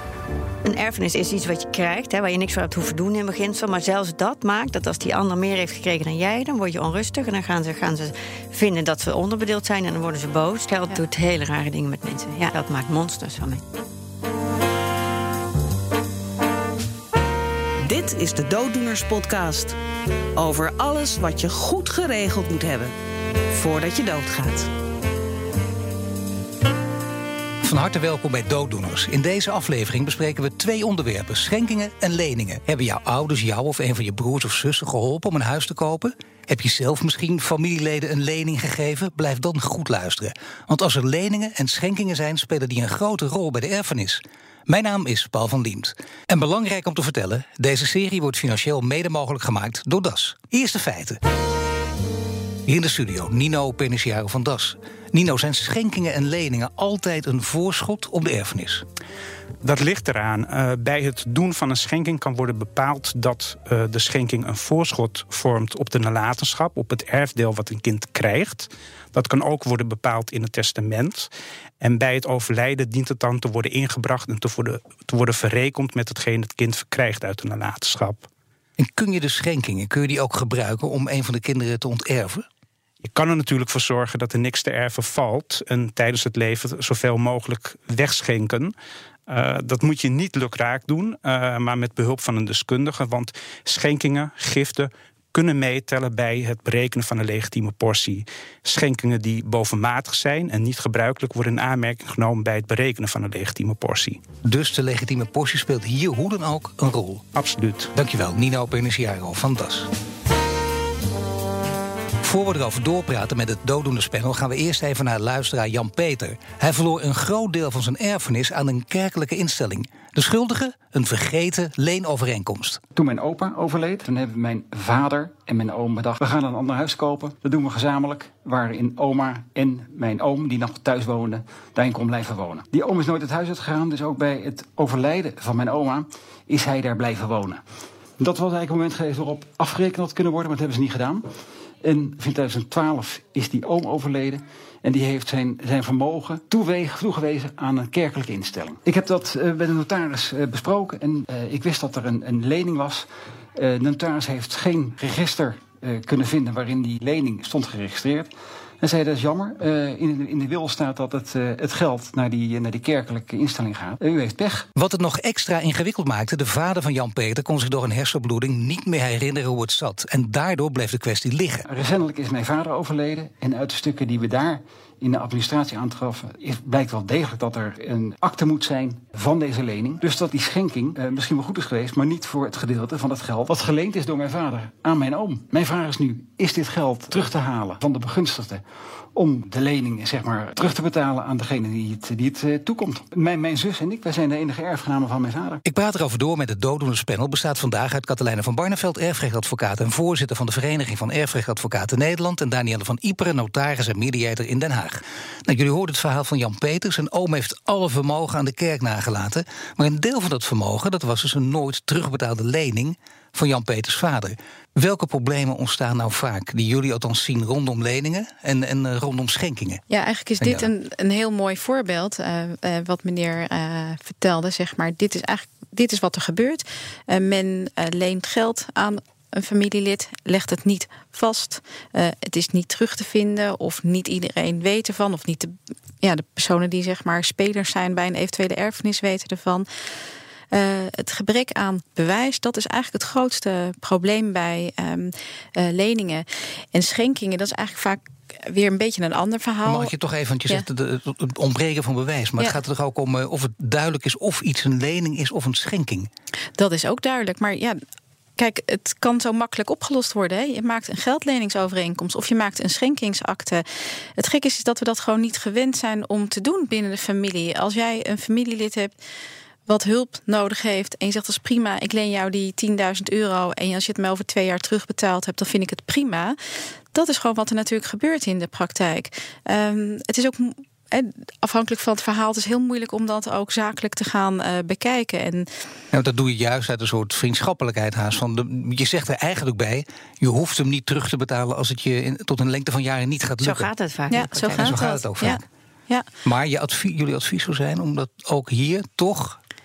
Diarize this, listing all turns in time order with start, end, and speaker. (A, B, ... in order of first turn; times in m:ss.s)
0:00.6-0:13.6 A
0:17.8-0:19.8 B
0:20.4-0:22.9 B
0:23.5-0:24.7 B
0:27.6-0:51.2 C
0:52.7-0:58.8 C
0:59.6-1:11.3 D
1:11.8-1:18.3 D
1:18.8-1:22.5 C
1:23.0-1:28.7 D
1:29.3-1:44.2 D
1:44.4-1:47.2 C
1:47.3-1:47.9 D
1:47.9-1:49.9 C
1:52.2-2:02.8 C
2:03.0-2:17.6 E
2:18.2-2:21.3 E
2:21.8-2:44.7 E
2:44.8-2:51.6 C
2:51.7-3:08.6 E
3:09.1-3:15.6 E
3:15.6-3:39.8 C
3:39.9-3:59.7 F
3:40.4-3:40.7 C
4:00.5-4:09.9 F
4:09.6-4:16.1 C
4:16.6-4:17.8 F
4:18.4-4:23.6 F
4:24.2-4:28.9 F
4:29.7-4:36.4 F
4:36.9-4:45.5 F
4:45.9-4:53.7 C
4:53.4-4:54.8 A
4:54.1-4:56.1 F
4:54.6-4:55.4 C
4:56.2-4:59.4 C